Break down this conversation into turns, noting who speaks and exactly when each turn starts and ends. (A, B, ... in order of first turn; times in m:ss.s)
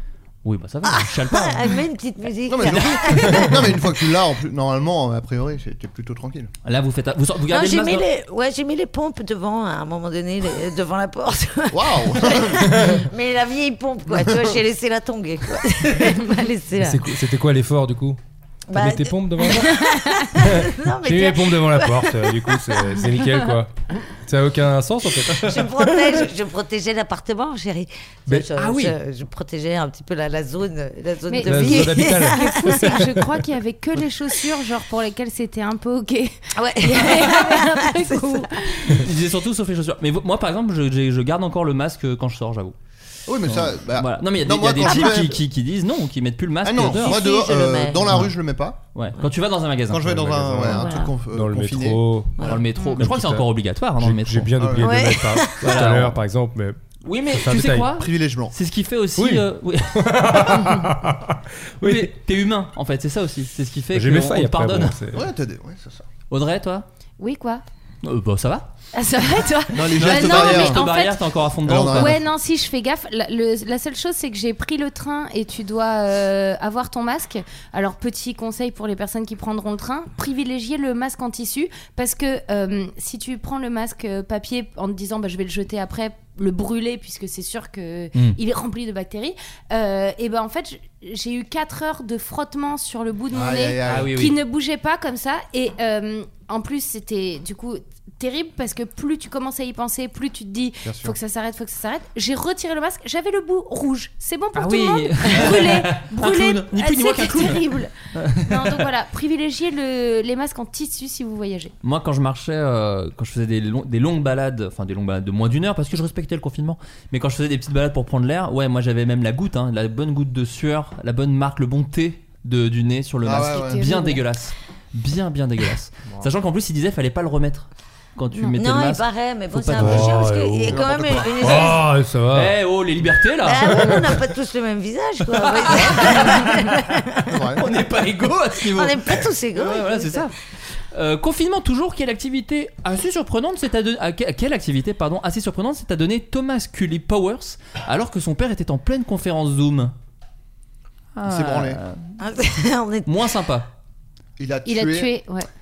0:00.4-0:01.8 A
0:00.8-0:03.8 B
0:02.5-0:06.5 C
0:02.6-0:03.4 A
0:06.6-0:08.0 A
0:07.5-0:17.1 B
0:11.7-0:13.0 C
0:14.1-0:14.6 C
0:16.8-0:18.2 D
0:18.7-0:22.8 B
0:18.7-0:19.8 D
0:20.4-0:25.7 D
0:25.4-0:32.9 B
0:28.6-0:28.9 A
0:31.3-0:39.0 E
0:31.4-0:33.3 D
0:36.6-0:38.5 B
0:38.9-0:42.7 A
0:43.3-0:45.4 C
0:43.4-0:47.2 A
0:44.8-0:45.2 B
0:46.6-0:48.8 C
0:46.8-0:48.2 B
0:48.9-0:50.7 A
0:49.9-0:52.6 C
0:50.4-0:56.8 D
0:50.7-0:51.1 B
0:52.4-0:54.5 A
0:54.6-0:54.9 C
0:54.8-0:55.8 B
0:55.6-0:56.2 A
0:57.0-1:00.7 A
0:57.3-0:57.9 D
0:57.8-0:58.5 C
0:59.2-1:02.1 D
1:01.8-1:05.0 A
1:03.9-1:05.3 D
1:05.1-1:06.0 C
1:06.3-1:06.8 A
1:07.2-1:07.6 E
1:08.0-1:08.7 A
1:08.9-1:11.2 E
1:09.7-1:10.8 C
1:09.9-1:12.2 A
1:11.6-1:12.2 C
1:11.9-1:51.7 E
1:33.3-1:34.3 C
1:33.8-1:34.4 A
1:40.8-1:41.2 C
1:44.5-1:47.6 A
1:48.1-1:48.8 A
1:51.8-2:10.2 A
2:03.2-2:03.8 C
2:03.5-2:04.2 E
2:08.5-2:11.8 B
2:09.8-2:12.5 D
2:10.7-2:11.7 C
2:12.3-2:14.2 A
2:13.4-2:17.4 B
2:15.3-2:16.6 A
2:15.7-2:16.3 C
2:17.3-2:17.6 C
2:17.6-2:20.3 A
2:18.6-2:20.3 B
2:20.9-2:29.9 A
2:31.2-2:32.1 A
2:31.2-2:31.8 C
2:32.2-2:33.1 B
2:33.0-2:33.7 A
2:34.4-2:35.1 C
2:34.6-2:35.5 E